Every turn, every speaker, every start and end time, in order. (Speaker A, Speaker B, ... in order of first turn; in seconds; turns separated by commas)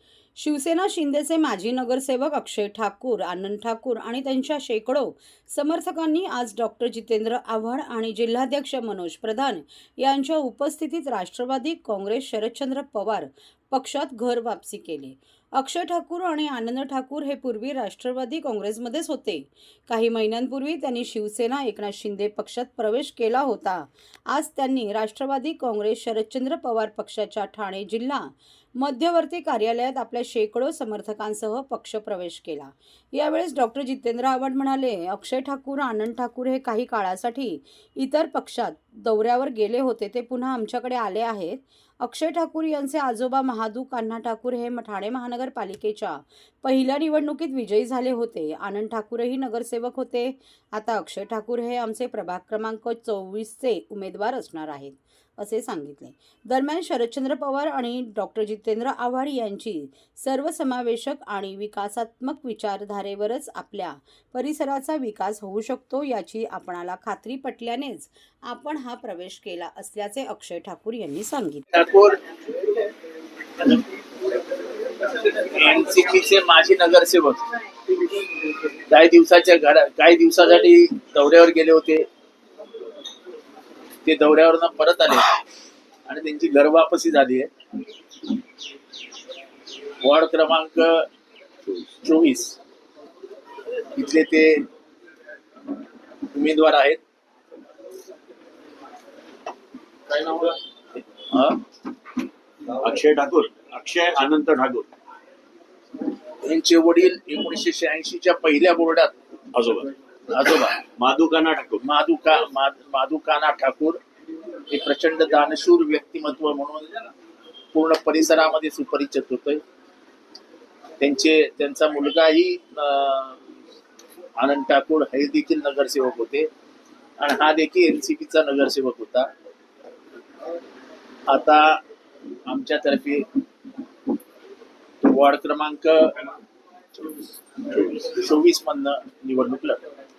Speaker A: 0.4-71.7, Speaker B: 71.7-72.2, Speaker B: 75.4-77.4, Speaker B: 78.9-82.1, Speaker B: 84.0-85.4, Speaker B: 86.0-87.5, Speaker B: 90.0-91.1, Speaker B: 92.0-92.6, Speaker B: 93.9-94.7, Speaker B: 96.3-97.0, Speaker B: 100.1-100.6, Speaker B: 101.3-101.6, Speaker C: 102.8-104.9, Speaker B: 106.4-109.1, Speaker C: 109.5-109.9, Speaker B: 110.3-110.8, Speaker C: 111.0-111.8, Speaker B: 111.8-114.0, Speaker B: 114.7-117.1, Speaker B: 117.7-119.6, Speaker B: 121.0-123.4, Speaker B: 124.4-126.5, Speaker B: 127.2-129.3, Speaker B: 131.3-131.8, Speaker B: 132.4-133.4, Speaker B: 135.0-136.2, Speaker C: 137.8-138.1, Speaker B: 138.0-139.8